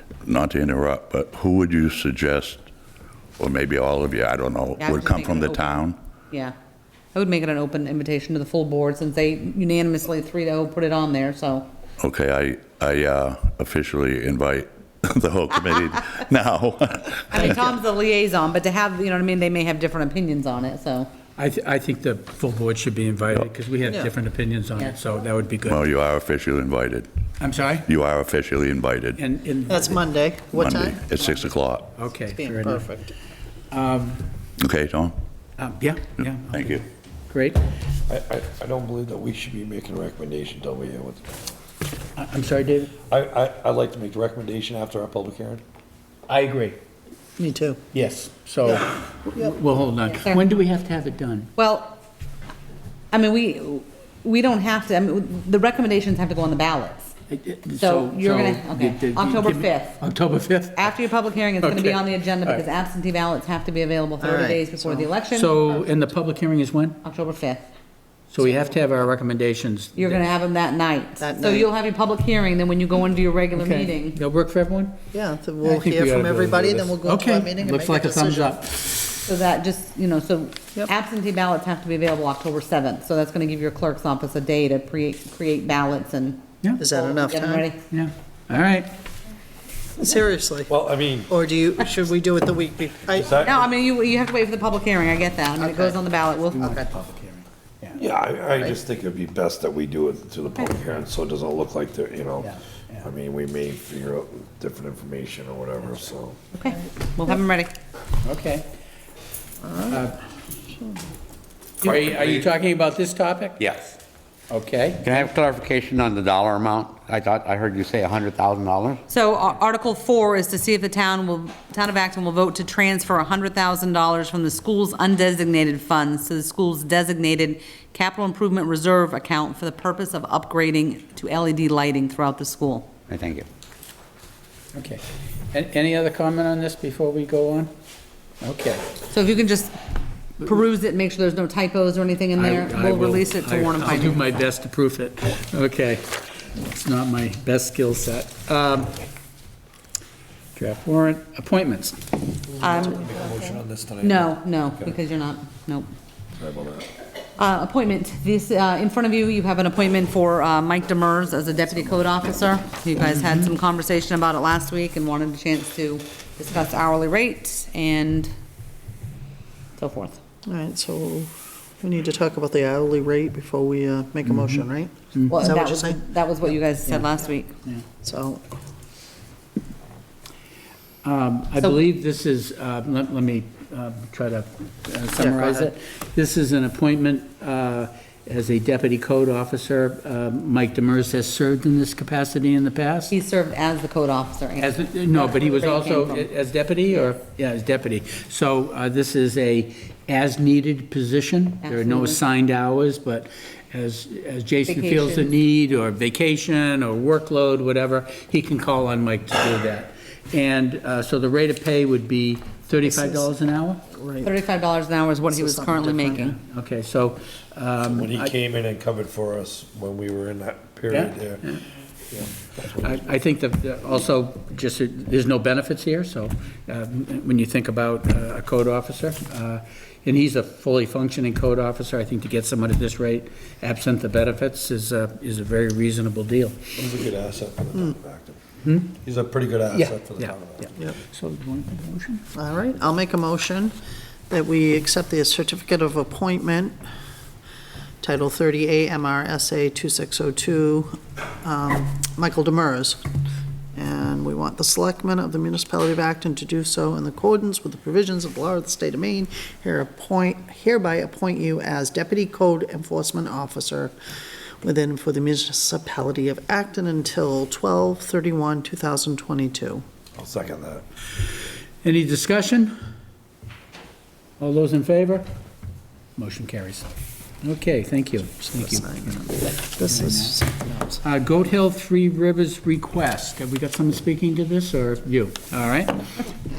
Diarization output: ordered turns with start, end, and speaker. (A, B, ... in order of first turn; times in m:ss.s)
0:00.2-0:02.6 A
0:03.4-0:06.0 A
0:04.8-0:06.5 B
0:07.1-0:11.7 B
0:12.0-0:17.6 A
0:17.3-0:21.1 B
0:21.4-0:25.8 C
0:23.8-0:24.1 D
0:25.6-0:27.1 A
0:27.4-0:27.9 C
0:27.8-0:29.2 A
0:29.2-0:30.0 C
0:29.7-0:31.0 D
0:30.5-0:31.9 A
0:32.0-0:32.8 C
0:32.2-0:33.1 D
0:33.7-0:34.2 C
0:34.6-0:35.1 A
0:35.6-0:37.7 C
0:36.2-0:36.8 A
0:38.1-0:41.4 E
0:42.2-0:42.9 C
0:43.1-0:45.6 E
0:46.3-0:46.8 C
0:47.4-0:47.8 D
0:47.9-0:51.5 C
0:50.1-0:50.4 B
0:51.6-0:52.0 B
0:53.1-0:57.1 B
0:57.3-1:00.9 C
0:57.8-1:00.0 B
1:00.8-1:05.5 B
1:01.6-1:02.6 C
1:04.2-1:05.1 D
1:05.3-1:07.0 C
1:07.0-1:07.6 B
1:08.3-1:10.2 C
1:08.4-1:08.7 D
1:10.0-1:14.2 B
1:11.2-1:11.7 D
1:13.5-1:14.9 C
1:15.1-1:18.6 D
1:15.6-1:19.0 C
1:19.2-1:27.8 B
1:26.8-1:27.6 D
1:27.9-1:28.9 C
1:30.0-1:30.7 D
1:30.7-1:31.3 E
1:31.3-1:33.5 D
1:33.2-1:33.6 E
1:33.4-1:36.9 B
1:35.6-1:36.0 D
1:36.5-1:38.0 C
1:38.0-1:46.4 E
1:42.4-1:43.1 C
1:46.5-1:47.7 B
1:48.2-1:48.6 C
1:49.6-1:50.0 D
1:49.9-1:50.2 C
1:51.8-1:53.6 C
1:53.6-1:54.0 F
1:54.5-1:55.0 C
1:55.0-1:59.0 F
1:59.1-2:12.9 B
2:13.1-2:13.4 F
2:14.7-2:17.7 C
2:18.4-2:18.8 C
2:19.1-2:19.8 B
2:20.4-2:24.2 B
2:22.4-2:29.0 C
2:30.5-2:32.0 C
2:32.5-2:34.9 E
2:32.6-2:33.0 B
2:34.0-2:35.9 B
2:36.4-2:36.9 E
2:37.4-2:48.3 B
2:49.8-2:50.2 B
2:50.4-2:56.0 D
2:54.2-2:54.6 C
2:55.1-2:55.5 C
2:55.3-2:57.5 B
2:58.0-2:58.4 D
3:01.0-3:13.1 C
3:05.2-3:05.7 B
3:13.1-3:16.3 B
3:14.6-3:33.8 C
3:21.6-3:22.2 B
3:24.7-3:25.3 B
3:32.9-3:33.4 D
3:33.9-3:34.3 D
3:34.2-3:36.4 B
3:35.3-3:36.3 D
3:36.1-3:38.3 C
3:37.9-3:41.4 E
3:40.9-3:41.6 C
3:42.1-3:43.0 E
3:42.6-3:56.6 C
3:56.7-3:58.4 E
3:58.6-3:58.9 C
3:59.0-4:00.7 E
3:59.7-4:02.2 C
4:02.3-4:03.7 D
4:04.3-4:06.8 D
4:08.0-4:13.0 D
4:13.7-4:23.9 D
4:24.6-4:29.8 D
4:30.2-4:30.8 E
4:31.8-4:32.7 C
4:34.4-4:35.3 C
4:36.2-4:36.9 C
4:37.4-4:40.4 C
4:38.5-4:41.0 D
4:41.0-4:46.0 C